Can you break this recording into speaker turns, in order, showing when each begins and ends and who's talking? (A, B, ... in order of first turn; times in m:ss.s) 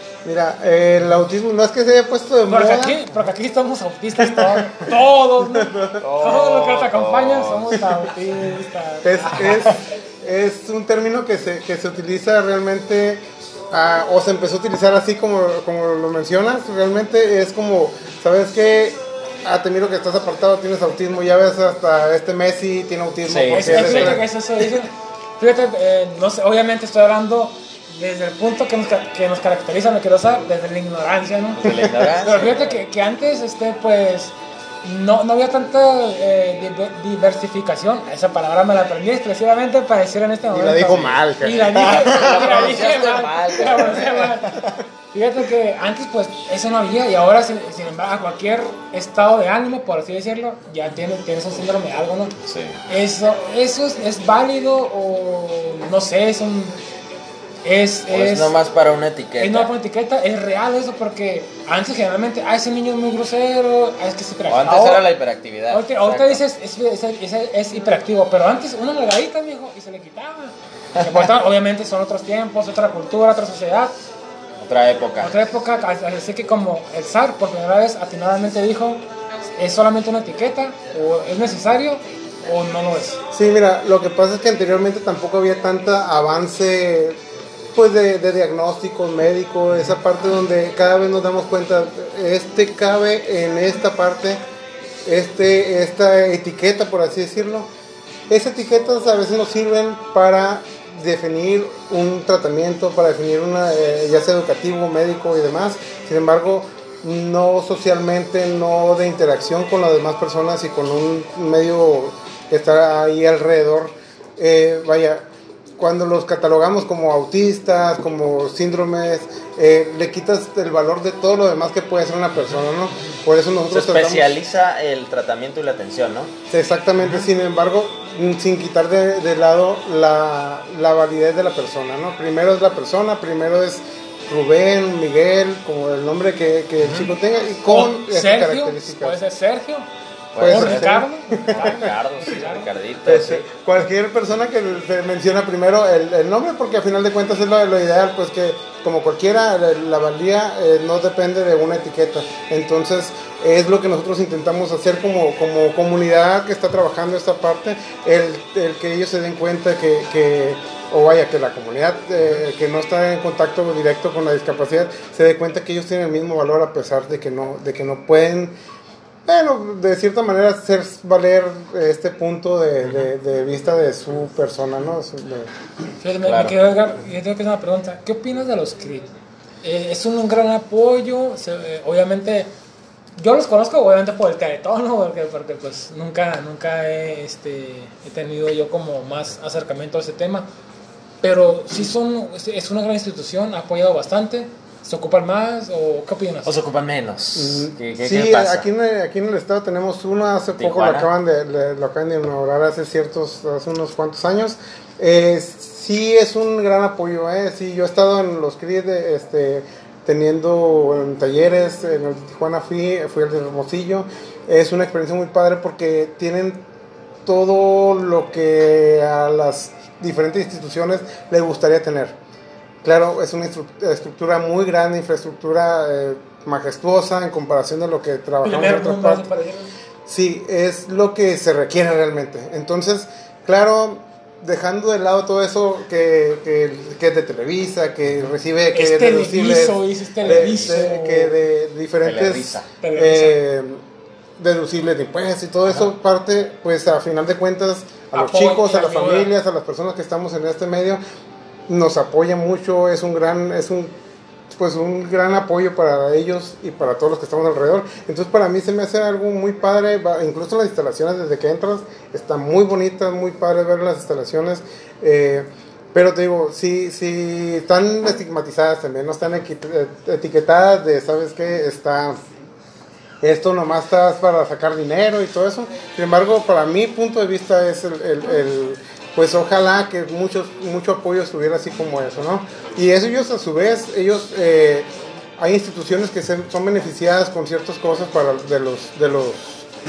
0:00.2-0:03.1 A
0:02.5-0:09.7 B
0:04.2-0:04.9 A
0:05.5-0:06.0 A
0:06.0-0:07.8 C
0:09.0-0:24.2 A
0:23.2-0:24.2 C
0:23.5-0:52.4 B
0:31.6-0:32.6 C
0:40.5-0:42.5 A
0:40.9-0:44.6 C
0:52.4-0:52.8 C
0:52.9-0:56.8 B
0:57.6-0:58.5 B
0:58.1-0:59.7 C
0:59.4-1:05.1 B
1:04.5-1:06.4 C
1:05.7-1:13.9 B
1:14.6-1:15.3 C
1:15.2-1:19.0 B
1:19.6-1:23.2 B
1:23.3-1:27.2 A
1:27.8-1:34.4 A
1:35.0-1:37.7 A
1:38.3-1:55.2 A
1:55.8-2:04.3 A
2:03.7-2:06.3 C
2:06.5-2:19.2 A
2:16.8-2:17.1 C
2:17.7-2:19.9 B
2:20.3-2:23.5 C
2:20.4-2:21.8 A
2:20.5-2:22.7 B
2:23.0-2:48.6 A
2:49.3-2:55.5 A
2:56.0-2:59.1 B
2:56.2-2:56.5 C
2:59.6-3:02.5 B
3:03.2-3:10.5 B
3:11.2-3:16.6 B
3:16.4-3:18.7 C
3:17.4-3:36.6 A
3:20.6-3:21.1 C
3:37.3-3:42.2 A
3:42.8-3:49.3 A
3:48.4-3:49.7 B
3:50.1-4:03.8 A
3:58.7-4:01.3 B
4:00.2-4:00.8 C
4:02.0-4:02.7 C
4:02.8-4:03.4 B
4:04.4-4:11.0 A
4:08.1-4:09.3 B
4:11.7-4:13.9 A
4:14.5-4:32.2 A
4:33.2-4:49.4 A